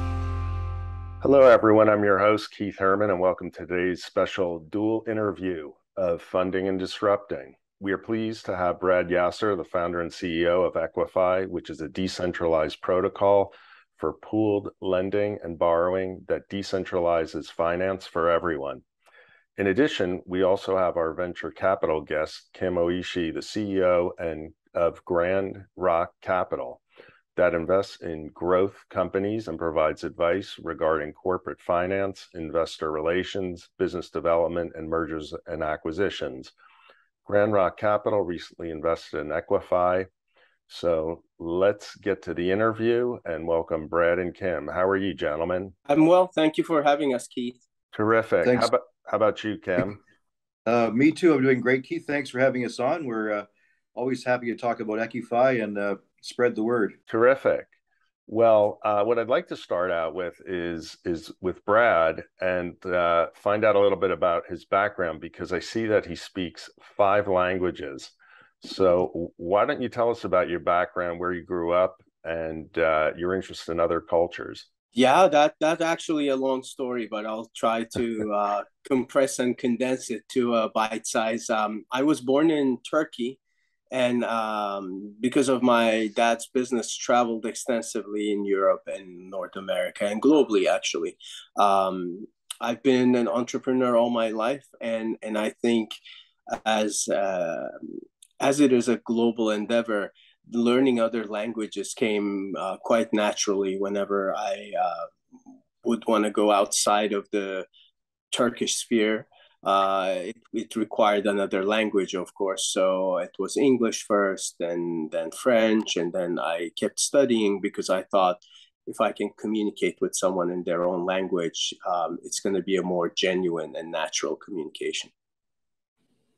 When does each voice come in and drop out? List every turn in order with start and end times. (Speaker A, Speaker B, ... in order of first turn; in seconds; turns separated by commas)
Speaker A: 1.2-18.8, Speaker A: 19.6-26.8, Speaker A: 27.4-36.5, Speaker A: 37.2-40.1, Speaker A: 40.7-45.7, Speaker B: 45.9-47.6, Speaker A: 47.9-50.0, Speaker C: 48.4-48.7, Speaker C: 50.6-57.0, Speaker A: 57.1-57.7, Speaker A: 58.3-74.7, Speaker B: 74.9-83.4, Speaker B: 83.9-95.9, Speaker B: 96.5-105.1, Speaker B: 105.8-107.7, Speaker B: 108.3-125.1